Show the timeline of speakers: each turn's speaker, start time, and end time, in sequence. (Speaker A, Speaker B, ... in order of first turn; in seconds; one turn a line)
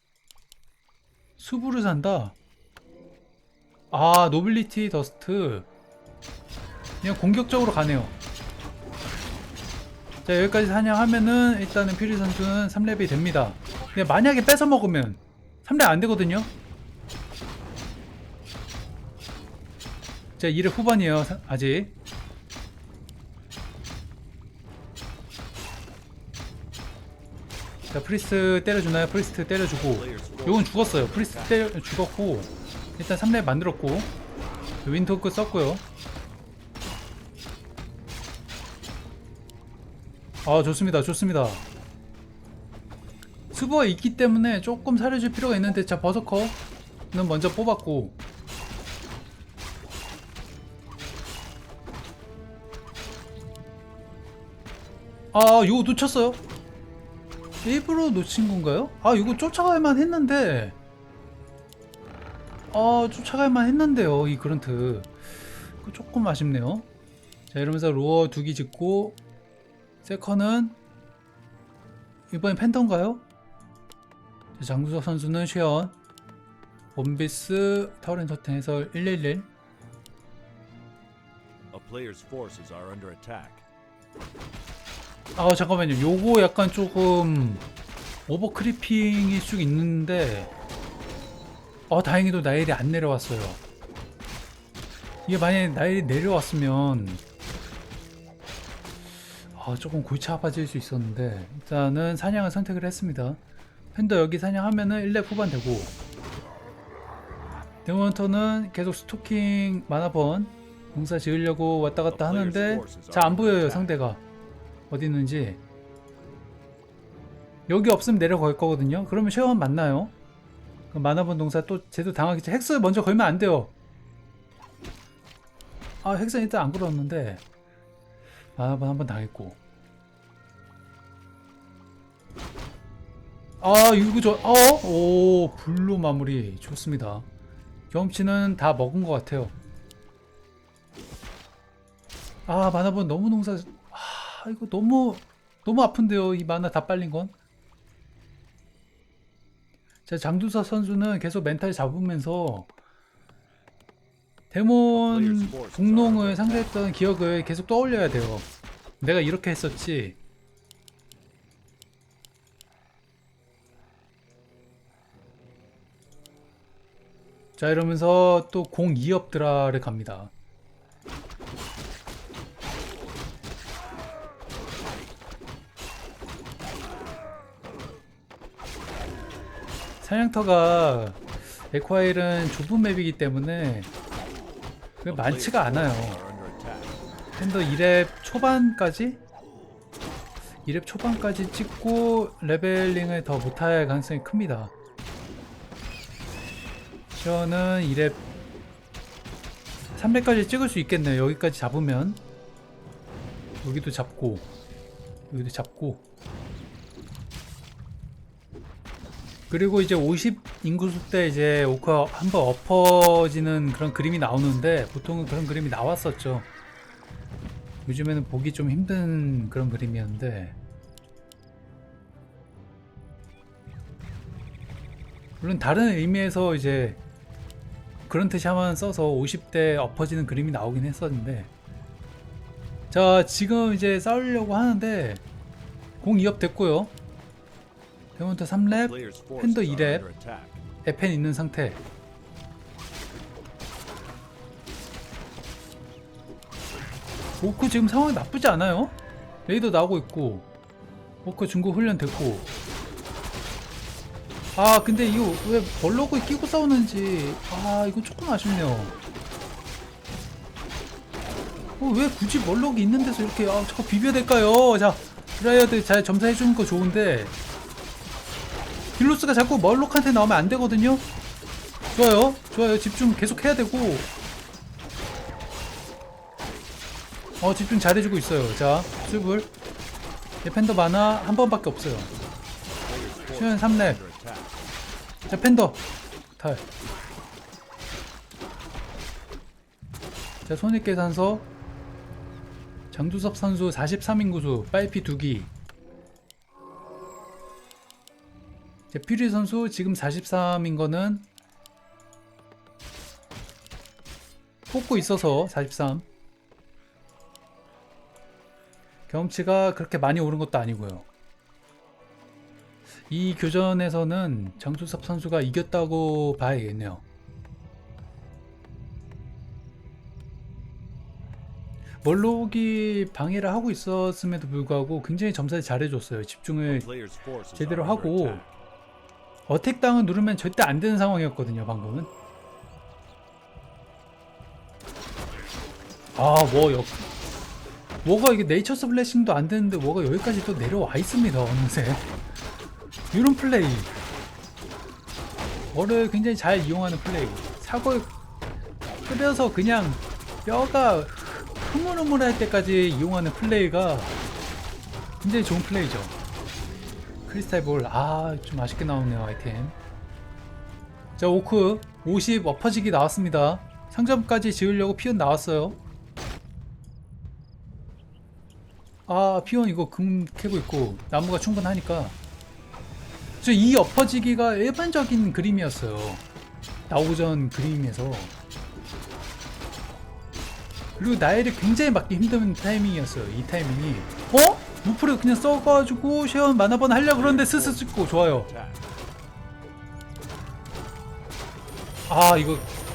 Speaker A: 1.4-2.4
Speaker A: 3.9-5.7
Speaker A: 7.0-8.1
Speaker A: 10.2-16.5
Speaker A: 20.4-21.9
Speaker A: 27.9-34.1
Speaker B: 29.7-31.6
Speaker A: 34.8-35.8
Speaker A: 40.4-41.6
Speaker A: 43.5-46.6
Speaker A: 47.1-48.1
Speaker A: 55.3-56.4
Speaker A: 57.6-60.8
Speaker A: 62.7-65.1
Speaker A: 65.8-66.9
Speaker A: 67.5-69.2
Speaker A: 70.0-70.8
Speaker A: 72.3-73.2
Speaker A: 74.6-76.0
Speaker A: 76.9-79.5
Speaker B: 81.7-83.6
Speaker A: 85.3-87.6
Speaker A: 88.3-90.5
Speaker A: 91.9-93.6
Speaker A: 95.3-97.2
Speaker A: 99.5-103.4
Speaker A: 103.9-105.9
Speaker A: 107.8-114.2
Speaker B: 112.1-113.9
Speaker A: 114.9-115.6
Speaker A: 117.7-120.1
Speaker A: 120.9-123.7
Speaker A: 126.0-127.4
Speaker A: 128.6-129.6
Speaker A: 133.6-137.3
Speaker A: 137.9-139.5
Speaker A: 142.4-147.3
Speaker A: 150.1-152.7
Speaker A: 154.5-158.5
Speaker B: 154.9-156.8
Speaker A: 159.0-160.2
Speaker A: 167.6-170.3
Speaker A: 180.0-183.9
Speaker B: 185.0-187.0
Speaker A: 185.1-186.2
Speaker A: 187.4-189.2
Speaker A: 190.6-194.7
Speaker A: 197.1-198.2
Speaker A: 199.9-202.2
Speaker A: 203.6-204.5
Speaker A: 205.3-206.0
Speaker A: 209.5-216.5
Speaker A: 217.8-220.6
Speaker A: 225.4-227.0
Speaker A: 228.1-231.5
Speaker A: 232.9-235.2
Speaker A: 236.0-236.9
Speaker A: 238.2-240.0
Speaker B: 238.7-240.6
Speaker A: 240.8-241.8
Speaker A: 247.4-250.5
Speaker A: 251.2-252.5
Speaker A: 254.6-258.9
Speaker A: 261.8-267.3
Speaker A: 269.0-271.0
Speaker A: 271.9-274.1
Speaker A: 277.4-279.5
Speaker A: 280.4-282.1
Speaker B: 282.8-284.6
Speaker A: 283.3-284.0
Speaker A: 285.3-285.8
Speaker A: 286.4-286.6
Speaker A: 290.4-291.5
Speaker A: 292.9-295.5
Speaker A: 298.9-301.3
Speaker A: 304.7-306.1
Speaker A: 309.1-311.1
Speaker A: 313.1-317.0
Speaker A: 322.0-326.9
Speaker B: 326.6-328.6
Speaker A: 327.5-328.4
Speaker A: 329.5-332.1
Speaker A: 336.1-337.1
Speaker A: 338.0-342.0
Speaker A: 343.1-343.9
Speaker A: 345.7-348.1
Speaker A: 349.1-354.1
Speaker A: 355.2-356.1
Speaker A: 357.2-359.7
Speaker A: 361.2-365.8
Speaker A: 369.1-372.2
Speaker A: 373.4-376.2
Speaker A: 376.9-378.3
Speaker A: 381.0-388.5
Speaker B: 387.1-388.8
Speaker A: 392.1-392.7